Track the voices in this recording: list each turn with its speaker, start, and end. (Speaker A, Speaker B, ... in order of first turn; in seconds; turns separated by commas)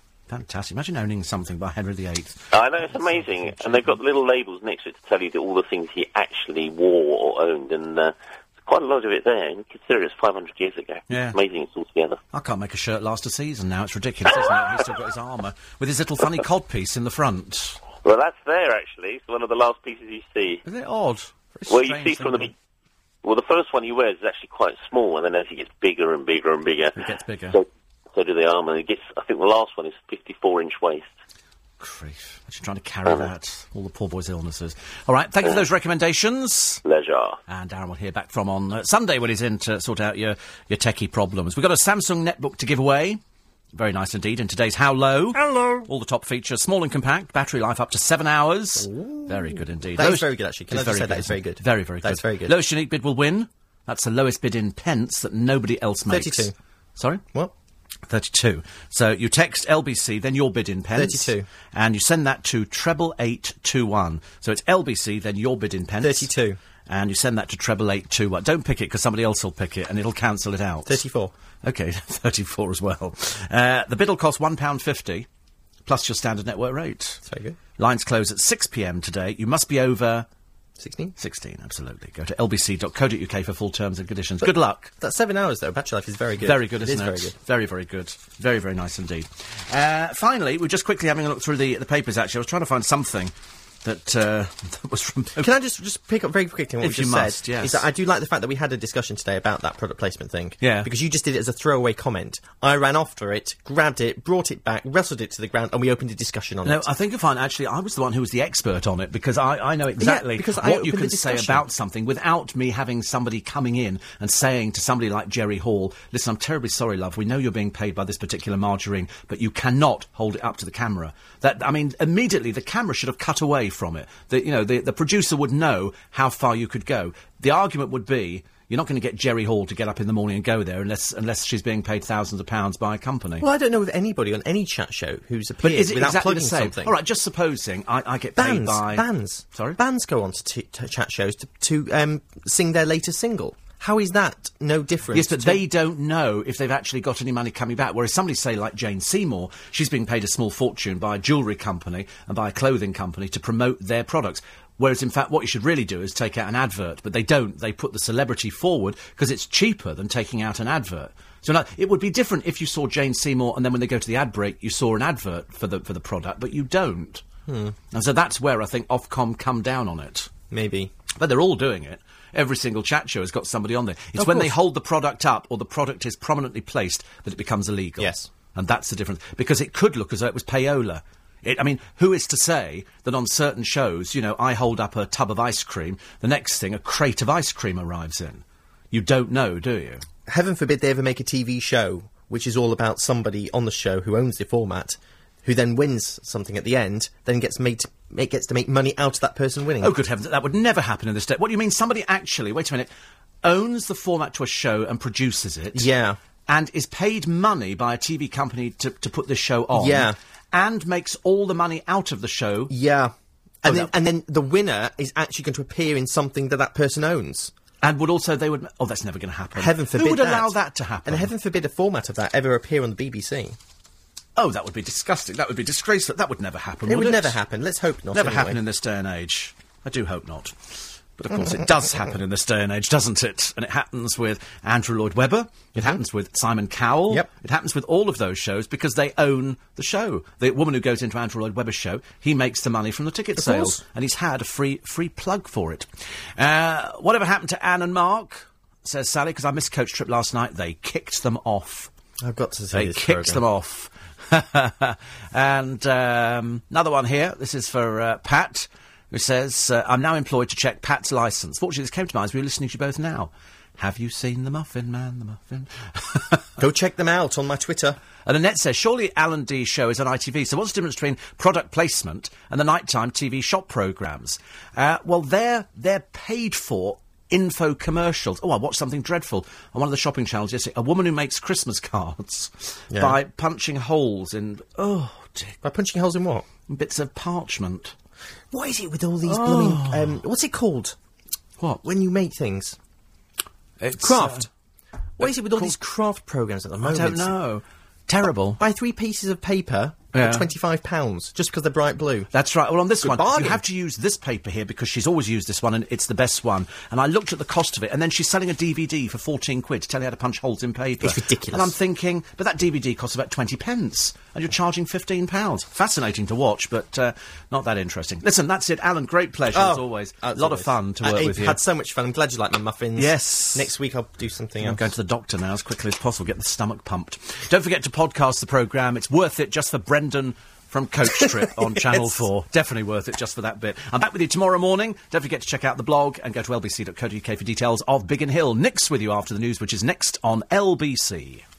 Speaker A: 0.3-4.0, Speaker B: 2.5-12.2, Speaker A: 11.1-11.4, Speaker A: 12.3-17.8, Speaker B: 18.0-20.6, Speaker A: 20.6-22.5, Speaker B: 21.7-22.5, Speaker B: 23.2-31.1, Speaker A: 27.0-27.6, Speaker A: 31.8-36.8, Speaker B: 36.8-37.4, Speaker A: 37.5-43.2, Speaker A: 43.7-57.2, Speaker C: 48.8-52.6, Speaker C: 56.1-56.5, Speaker A: 58.1-66.3, Speaker C: 61.0-61.5, Speaker C: 66.0-66.6, Speaker A: 66.9-71.0, Speaker C: 70.9-71.3, Speaker A: 71.6-75.3, Speaker A: 75.9-77.2, Speaker C: 77.3-77.6, Speaker A: 77.8-80.3, Speaker C: 80.8-81.2, Speaker A: 81.2-84.9, Speaker C: 84.4-87.4, Speaker A: 86.4-93.3, Speaker A: 93.8-95.5, Speaker C: 95.4-106.9, Speaker A: 96.8-97.8, Speaker A: 100.6-100.9, Speaker A: 106.7-133.4, Speaker C: 110.0-111.7, Speaker C: 133.4-137.0, Speaker A: 135.6-139.8, Speaker C: 138.4-145.6, Speaker A: 145.1-167.2, Speaker C: 167.5-167.8, Speaker A: 167.9-170.3, Speaker C: 170.5-170.9, Speaker A: 171.2-190.1, Speaker C: 174.2-174.6, Speaker C: 178.0-178.3, Speaker C: 190.3-200.0, Speaker A: 199.8-202.9, Speaker A: 203.4-205.9, Speaker C: 205.7-206.2, Speaker A: 206.5-212.7, Speaker C: 209.7-210.2, Speaker C: 212.7-217.5, Speaker A: 213.7-213.9, Speaker A: 217.8-221.3, Speaker C: 219.6-223.6, Speaker A: 224.4-227.4, Speaker C: 226.9-228.6, Speaker A: 228.1-230.6, Speaker A: 231.2-251.9, Speaker C: 243.4-243.8, Speaker C: 252.2-253.4, Speaker A: 252.7-266.5, Speaker C: 266.6-268.0, Speaker A: 268.2-285.6, Speaker C: 282.9-283.2, Speaker C: 285.6-286.5, Speaker A: 286.7-287.9, Speaker C: 288.5-291.0, Speaker A: 289.2-290.2, Speaker C: 291.8-292.8, Speaker A: 293.8-294.5, Speaker C: 294.0-294.5, Speaker C: 295.2-297.3, Speaker A: 295.2-295.8, Speaker A: 296.8-298.6, Speaker C: 298.6-302.3, Speaker A: 300.1-300.5, Speaker A: 302.3-321.6, Speaker C: 303.0-303.6, Speaker C: 311.0-311.8, Speaker C: 319.5-324.9, Speaker A: 323.0-323.7, Speaker A: 324.6-341.4